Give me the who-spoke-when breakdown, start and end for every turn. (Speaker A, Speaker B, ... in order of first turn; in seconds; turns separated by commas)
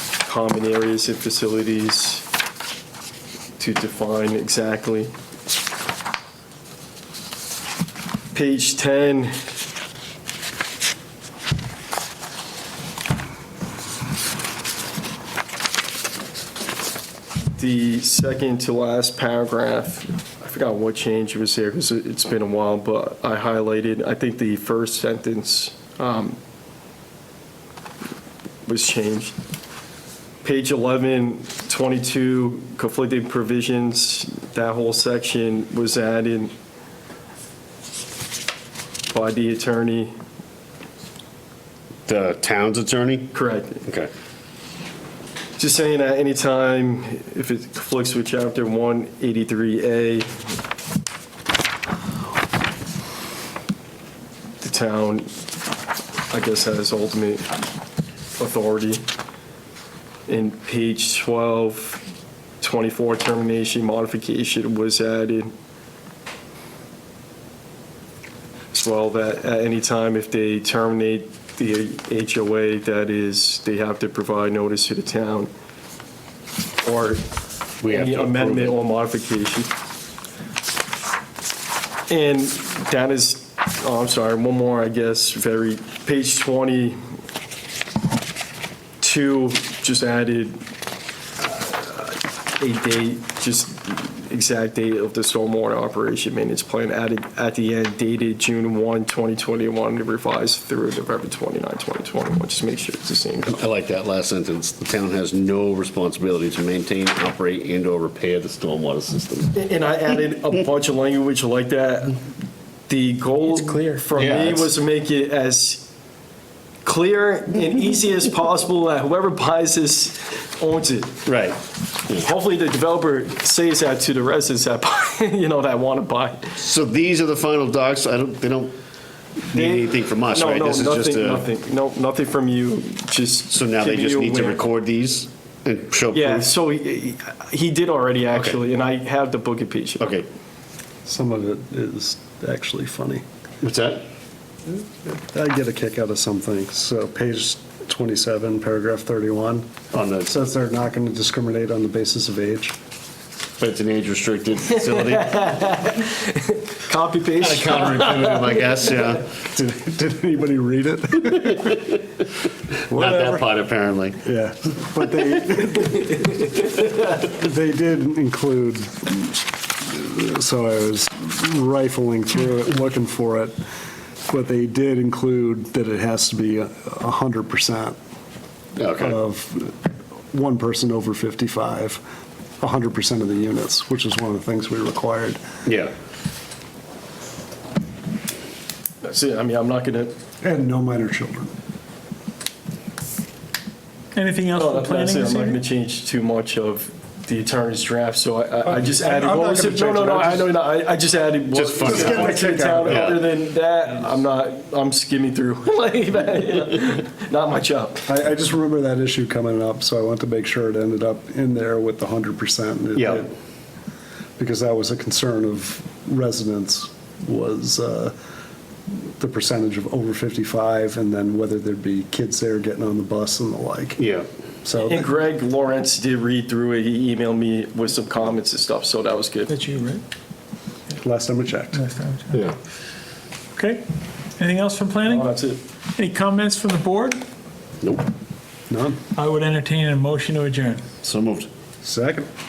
Speaker A: 0.2-2.3, Speaker A: 3.6-5.1, Speaker A: 8.3-9.4, Speaker A: 17.6-26.4, Speaker A: 28.6-29.3, Speaker A: 30.4-36.5, Speaker A: 39.1-40.1, Speaker B: 42.1-43.3, Speaker A: 43.3-43.8, Speaker B: 43.8-44.1, Speaker A: 45.6-50.3, Speaker A: 54.6-55.3, Speaker A: 56.3-57.5, Speaker A: 58.4-59.0, Speaker A: 60.3-62.0, Speaker A: 62.6-65.5, Speaker A: 68.7-75.5, Speaker A: 76.8-77.2, Speaker B: 77.8-78.8, Speaker A: 77.8-79.7, Speaker A: 82.1-87.0, Speaker A: 89.0-90.6, Speaker A: 91.4-103.6, Speaker B: 103.5-109.6, Speaker A: 109.5-112.2, Speaker A: 112.9-115.9, Speaker C: 113.5-113.9, Speaker B: 114.2-114.7, Speaker A: 116.8-121.2, Speaker B: 121.2-121.6, Speaker A: 122.1-126.6, Speaker B: 126.6-128.7, Speaker B: 129.5-131.5, Speaker A: 129.5-134.6, Speaker B: 133.5-136.5, Speaker A: 136.1-140.1, Speaker B: 138.3-138.6, Speaker B: 140.0-140.2, Speaker D: 141.0-143.2, Speaker B: 143.6-144.0, Speaker D: 145.0-149.7, Speaker B: 149.9-150.3, Speaker D: 150.2-152.7, Speaker B: 153.6-155.3, Speaker A: 154.7-158.7, Speaker B: 157.4-159.3, Speaker D: 159.4-162.0, Speaker D: 162.9-163.4, Speaker B: 162.9-164.2, Speaker D: 164.2-173.6, Speaker A: 165.9-166.8, Speaker D: 174.3-178.0, Speaker B: 178.8-179.2, Speaker D: 179.0-179.7, Speaker D: 180.3-182.0, Speaker D: 182.6-185.4, Speaker B: 185.7-185.9, Speaker A: 189.0-190.1, Speaker D: 190.4-191.5, Speaker C: 194.1-195.6, Speaker A: 194.5-208.0, Speaker D: 198.6-200.5, Speaker B: 201.5-203.2, Speaker D: 201.8-203.1, Speaker D: 208.1-213.3, Speaker B: 212.9-213.2, Speaker D: 214.4-218.1, Speaker D: 219.2-224.0, Speaker B: 224.0-224.3, Speaker D: 224.6-225.0, Speaker A: 224.7-229.6, Speaker C: 229.5-230.0, Speaker D: 231.0-231.8, Speaker C: 231.7-232.5, Speaker C: 233.5-233.8, Speaker C: 234.4-235.3, Speaker A: 235.0-235.6, Speaker C: 235.9-237.2, Speaker B: 237.8-238.1, Speaker D: 238.7-239.0, Speaker C: 239.1-240.8, Speaker B: 241.0-241.5, Speaker D: 241.8-242.3